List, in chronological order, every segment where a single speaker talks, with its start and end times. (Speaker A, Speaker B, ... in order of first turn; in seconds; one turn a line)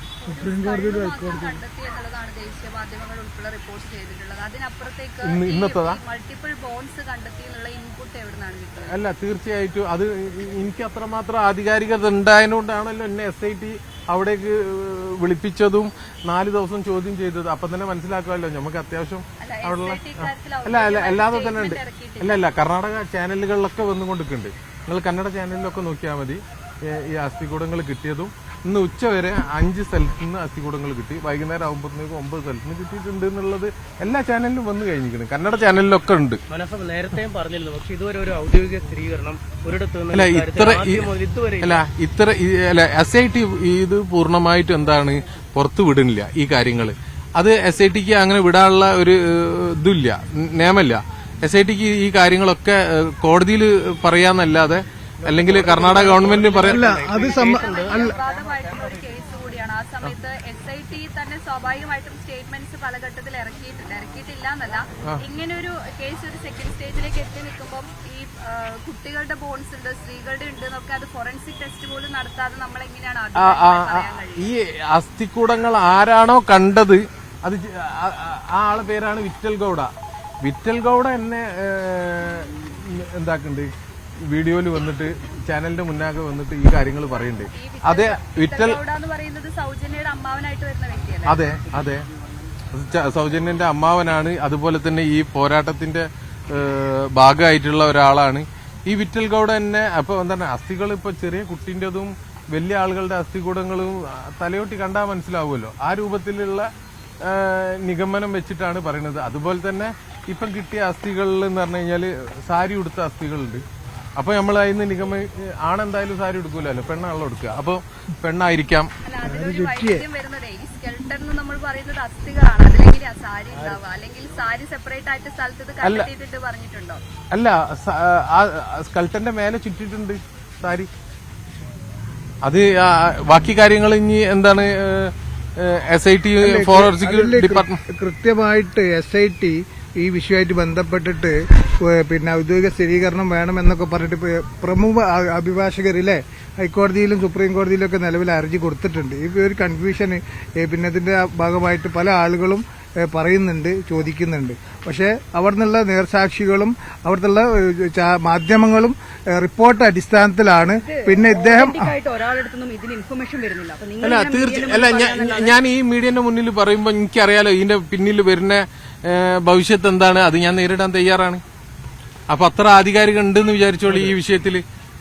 Speaker A: 0.2-9.0
Speaker B: 0.3-1.6
Speaker C: 5.2-6.0
Speaker C: 8.9-36.4
Speaker A: 19.4-22.4
Speaker D: 36.5-41.8
Speaker C: 40.1-41.1
Speaker C: 41.6-56.8
Speaker D: 55.4-58.1
Speaker B: 56.6-58.1
Speaker A: 57.4-74.5
Speaker C: 73.3-79.9
Speaker C: 80.4-83.7
Speaker C: 84.3-88.8
Speaker A: 87.5-91.5
Speaker C: 91.2-92.0
Speaker C: 92.7-106.7
Speaker C: 107.2-113.6
Speaker C: 114.2-118.9
Speaker A: 119.0-127.0
Speaker B: 119.2-120.0
Speaker C: 125.8-126.1
Speaker C: 127.3-130.9
Speaker C: 132.4-137.8
Speaker B: 136.4-161.9
Speaker E: 160.7-165.5
Speaker C: 164.0-171.4
Speaker C: 172.3-174.6